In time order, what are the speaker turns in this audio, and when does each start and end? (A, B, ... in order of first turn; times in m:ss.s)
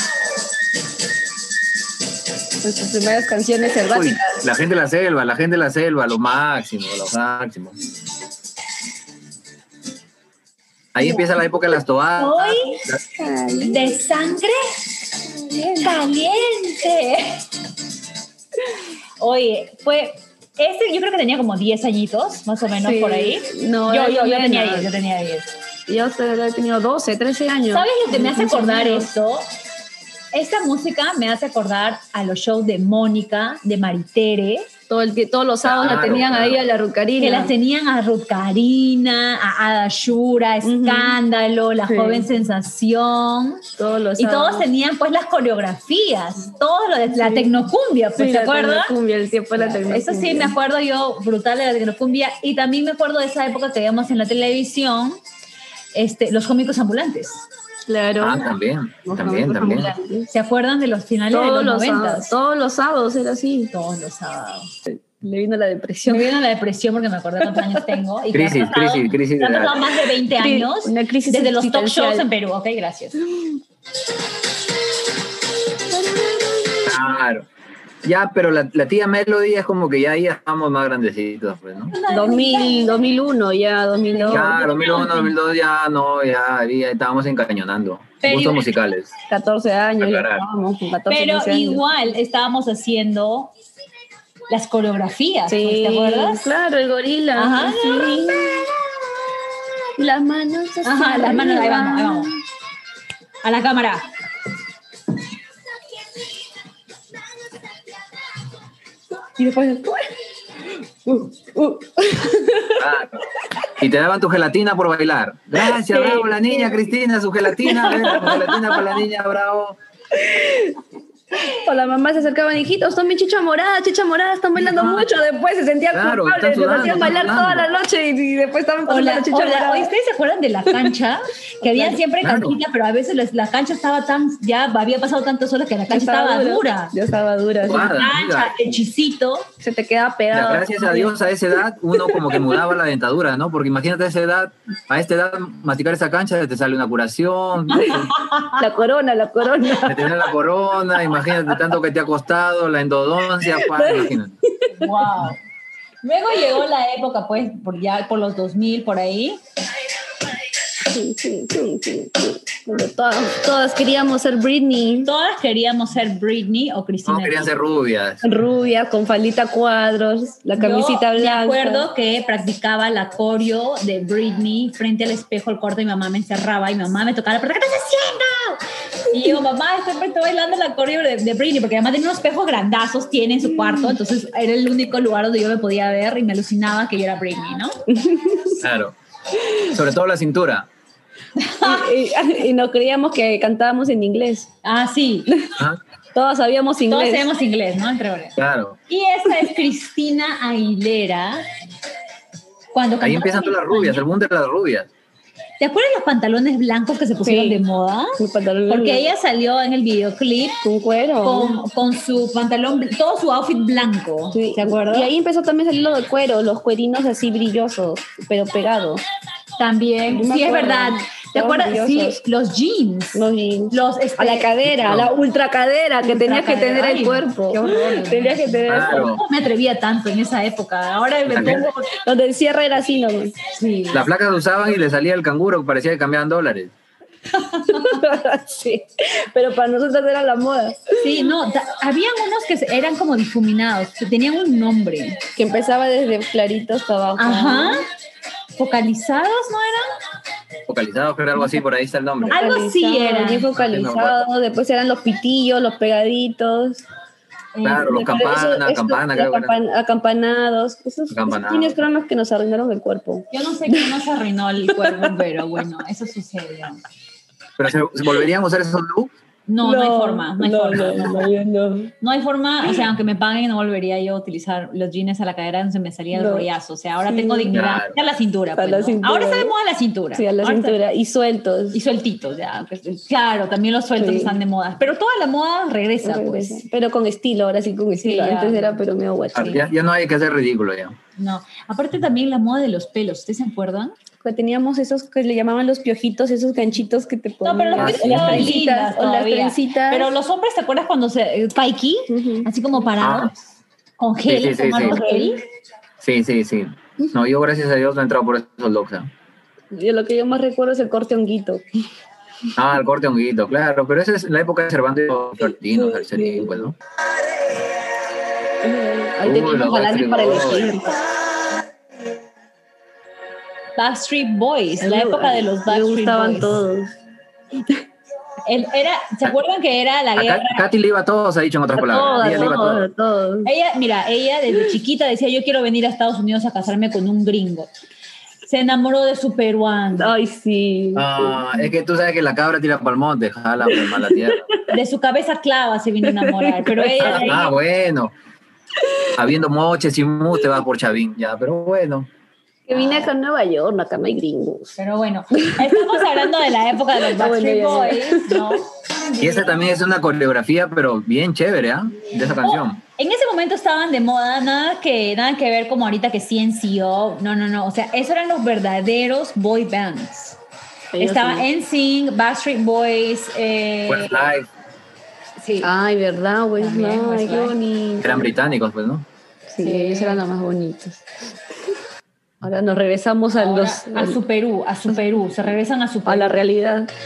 0:02.6-0:04.4 A
0:03.9-0:07.8 B
0:10.9-0:13.0 B
0:11.0-0:11.3 A
0:12.2-0:12.8 C
0:13.0-0:14.0 A
0:13.6-0:14.9 C
0:15.3-0:16.0 A
0:15.8-0:17.4 C
0:19.2-0:25.5 C
0:22.8-0:24.9 A
0:25.9-0:29.1 A
0:27.7-0:29.5 C
0:30.3-0:34.7 C
0:34.9-0:37.5 A
0:35.6-0:36.6 B
0:37.2-0:43.6 C
0:40.6-0:41.2 A
0:41.9-0:42.3 A
0:43.8-0:44.6 A
0:44.2-0:48.9 C
0:48.2-0:50.5 A
0:49.5-0:55.2 C
0:55.9-0:57.4 C
0:57.9-0:58.5 A
0:58.2-1:00.0 B
0:59.0-1:00.3 A
1:00.3-1:02.3 C
1:01.3-1:03.7 A
1:03.7-1:04.7 C
1:04.9-1:06.3 A
1:06.0-1:13.2 C
1:08.3-1:09.8 B
1:10.4-1:12.3 A
1:16.4-1:16.8 A
1:16.8-1:17.5 B
1:18.0-1:21.9 B
1:21.9-1:23.1 C
1:22.1-1:24.5 A
1:24.1-1:25.3 C
1:24.3-1:29.1 B
1:28.2-1:28.6 C
1:29.3-1:31.8 A
1:30.0-1:30.4 B
1:31.1-1:33.5 C
1:34.5-1:36.5 C
1:35.5-1:38.7 A
1:37.4-1:38.4 C
1:40.0-1:42.4 A
1:40.8-1:42.3 C
1:43.4-1:44.1 C
1:49.4-1:50.1 A
1:51.0-1:52.8 A
1:52.8-1:53.2 B
1:53.8-1:59.8 B
1:55.8-1:56.7 A
1:57.6-1:58.6 A
2:00.2-2:00.8 A
2:01.4-2:09.9 A
2:04.8-2:05.0 B
2:05.9-2:07.7 B
2:08.9-2:16.9 C
2:11.6-2:12.0 A
2:12.2-2:12.6 B
2:15.9-2:18.0 A
2:17.6-2:18.7 B
2:17.7-2:19.5 C
2:19.6-2:21.1 A
2:20.3-2:28.2 B
2:28.1-2:28.6 C
2:28.5-2:30.2 A
2:29.8-2:34.3 B
2:33.6-2:34.7 A
2:34.8-2:35.4 C
2:36.0-2:39.4 C
2:40.8-2:45.1 A
2:45.0-2:47.5 C
2:47.0-2:48.2 B
2:48.2-2:51.9 A
2:50.6-3:07.8 C
3:03.6-3:04.0 A
3:07.9-3:08.6 A
3:08.6-3:08.9 B
3:09.6-3:10.7 B
3:11.4-3:11.9 C
3:11.6-3:14.5 A
3:14.6-3:15.4 C
3:16.1-3:17.3 A
3:16.9-3:18.4 C
3:18.4-3:18.8 B
3:18.9-3:21.4 C
3:22.7-3:24.0 C
3:23.0-3:24.9 B
3:25.6-3:30.6 C
3:27.2-3:27.6 A
3:28.2-3:29.1 A
3:30.6-3:31.6 A
3:31.2-3:35.1 C
3:34.3-3:39.0 A
3:39.6-3:44.5 C
3:40.1-3:42.2 A
3:43.1-3:49.0 A
3:44.7-3:45.1 B
3:46.1-3:51.9 C
3:48.7-3:49.2 B
3:51.3-3:51.6 B
3:51.4-3:53.3 A
3:53.5-3:54.1 C
3:53.9-3:56.7 B
3:57.4-3:58.0 C
3:57.7-4:01.3 A
4:01.0-4:05.2 C
4:05.4-4:07.8 A
4:07.2-4:07.8 C
4:08.6-4:09.9 C
4:10.7-4:12.4 B
4:12.2-4:16.8 A
4:12.3-4:13.5 C
4:13.6-4:14.2 B
4:17.5-4:18.1 C
4:17.6-4:19.6 B
4:17.8-4:23.9 A
4:21.1-4:21.8 B
4:23.3-4:26.8 C
4:24.8-4:25.1 A
4:27.6-4:29.1 B
4:29.5-4:31.3 C
4:29.6-4:31.9 A
4:32.0-4:40.8 C
4:36.1-4:36.4 A
4:37.1-4:37.5 A
4:37.5-4:37.9 B
4:38.6-4:39.5 A
4:40.1-4:41.8 A
4:41.7-4:46.6 C
4:44.0-4:44.4 A
4:46.0-4:49.6 A
4:48.0-4:48.8 C
4:49.3-4:51.0 B
4:49.4-4:49.6 C
4:51.2-4:54.0 C
4:54.2-5:00.1 A
4:57.4-5:03.4 C
4:57.8-4:58.6 B
5:02.1-5:02.5 A
5:03.0-5:03.3 B
5:04.0-5:05.4 C
5:04.3-5:05.0 B
5:04.6-5:05.4 A
5:06.0-5:09.1 B
5:09.7-5:11.6 A
5:12.6-5:16.8 B
5:15.9-5:16.6 A
5:18.6-5:21.0 A
5:19.2-5:20.8 B
5:23.8-5:26.6 C
5:24.8-5:26.9 A
5:28.4-5:30.7 C
5:30.1-5:32.9 B
5:31.7-5:33.5 A
5:33.4-5:37.7 C
5:38.4-5:40.1 C
5:40.0-5:41.6 A
5:40.9-5:44.5 B
5:43.9-5:44.7 A
5:44.7-5:47.5 C
5:46.1-5:47.4 A
5:47.0-5:48.1 B
5:49.1-5:52.1 B
5:52.7-5:54.8 A
5:52.7-5:53.0 C
5:54.8-5:59.7 C
5:55.4-5:56.0 A
5:57.1-5:58.5 A
5:59.2-6:02.8 B
6:02.4-6:10.4 C
6:10.9-6:11.4 A
6:11.0-6:14.3 C
6:13.9-6:14.5 B
6:15.4-6:15.7 C
6:15.6-6:18.3 A
6:16.6-6:17.5 C
6:18.0-6:19.0 B
6:19.5-6:21.0 A
6:19.6-6:20.2 C
6:22.4-6:24.2 A
6:23.3-6:26.4 C
6:26.0-6:26.9 A